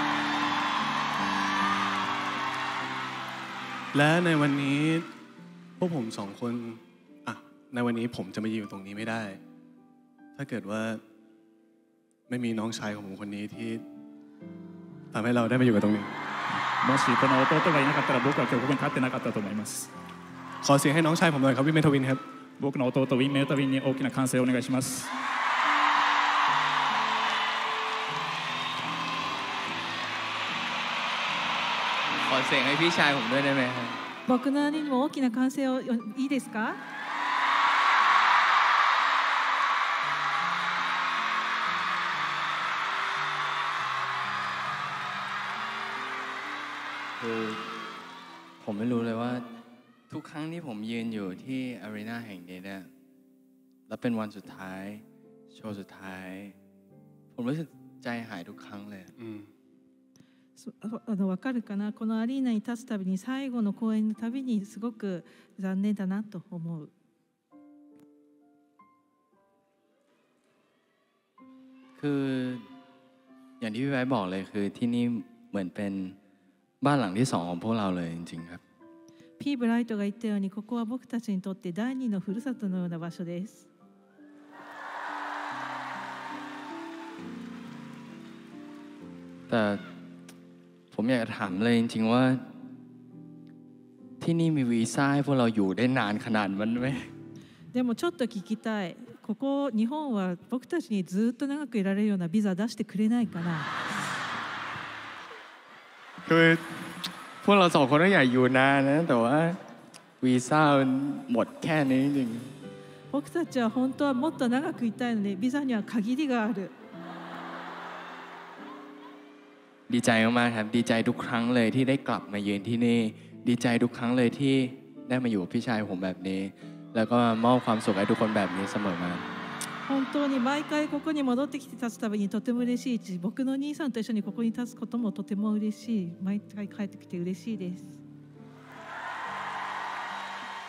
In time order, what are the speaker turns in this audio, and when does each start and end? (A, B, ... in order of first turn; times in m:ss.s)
0:03.9-0:05.1 A
0:05.8-0:09.4 A
0:10.4-0:11.0 A
0:12.3-0:13.8 A
0:15.1-0:16.1 A
0:16.6-0:19.9 B
0:20.6-0:22.2 A
0:22.6-0:25.1 B
0:32.1-0:34.0 C
0:34.3-0:36.8 D
0:47.2-0:47.7 C
0:48.6-0:49.5 C
0:50.1-0:52.9 C
0:53.9-0:56.6 C
0:57.3-0:59.1 C
0:59.2-0:59.5 A
1:00.6-1:06.9 D
1:12.0-1:12.7 C
1:13.6-1:16.2 C
1:16.8-1:18.6 C
1:19.4-1:23.7 D
1:29.5-1:29.8 C
1:30.9-1:32.5 C
1:34.2-1:37.1 C
1:37.7-1:43.7 D
1:46.2-1:46.8 C
1:47.4-1:49.6 C
1:50.2-1:52.5 C
1:53.1-1:56.7 D
1:59.9-2:09.3 C
2:09.8-2:18.0 D